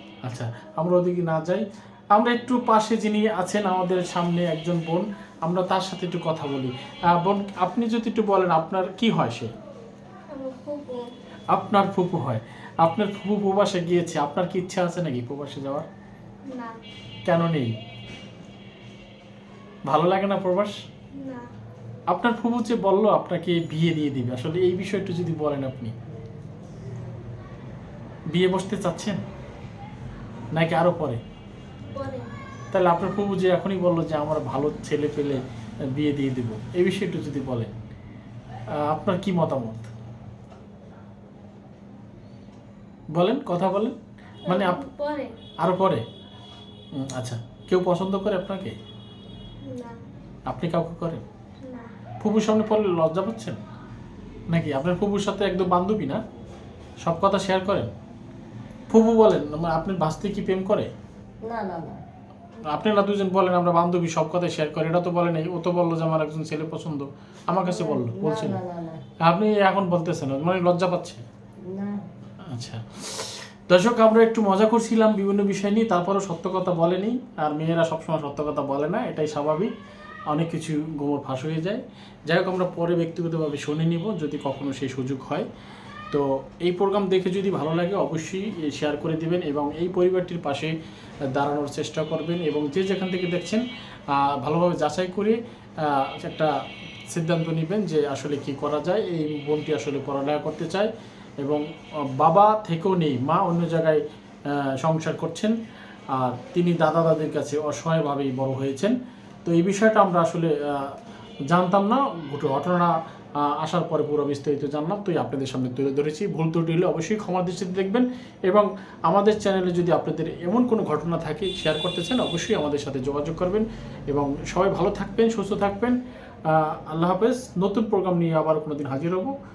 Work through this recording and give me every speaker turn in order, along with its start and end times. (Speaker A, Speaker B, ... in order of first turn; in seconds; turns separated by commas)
Speaker A: 0.2-9.5, Speaker B: 10.3-11.1, Speaker A: 11.5-15.8, Speaker B: 16.5-16.8, Speaker A: 17.2-17.7, Speaker A: 19.9-20.8, Speaker B: 21.1-21.4, Speaker A: 22.1-25.9, Speaker A: 28.3-29.2, Speaker A: 30.5-31.2, Speaker B: 31.9-32.3, Speaker A: 32.7-37.7, Speaker A: 38.7-39.9, Speaker A: 43.1-43.9, Speaker B: 44.4-45.3, Speaker A: 44.5-44.8, Speaker A: 45.6-46.0, Speaker A: 46.9-48.8, Speaker B: 49.6-50.0, Speaker A: 50.5-51.2, Speaker B: 51.6-51.9, Speaker A: 52.2-53.6, Speaker A: 54.5-56.2, Speaker A: 57.0-57.9, Speaker A: 58.9-60.9, Speaker C: 61.5-62.0, Speaker A: 62.6-68.6, Speaker C: 67.6-69.0, Speaker A: 69.2-71.2, Speaker C: 71.7-72.0, Speaker A: 72.5-79.7, Speaker A: 80.3-85.5, Speaker A: 86.1-90.7, Speaker A: 91.3-96.5, Speaker A: 97.1-100.9, Speaker A: 102.2-105.5, Speaker A: 106.1-110.9, Speaker A: 111.5-126.0, Speaker A: 126.5-129.3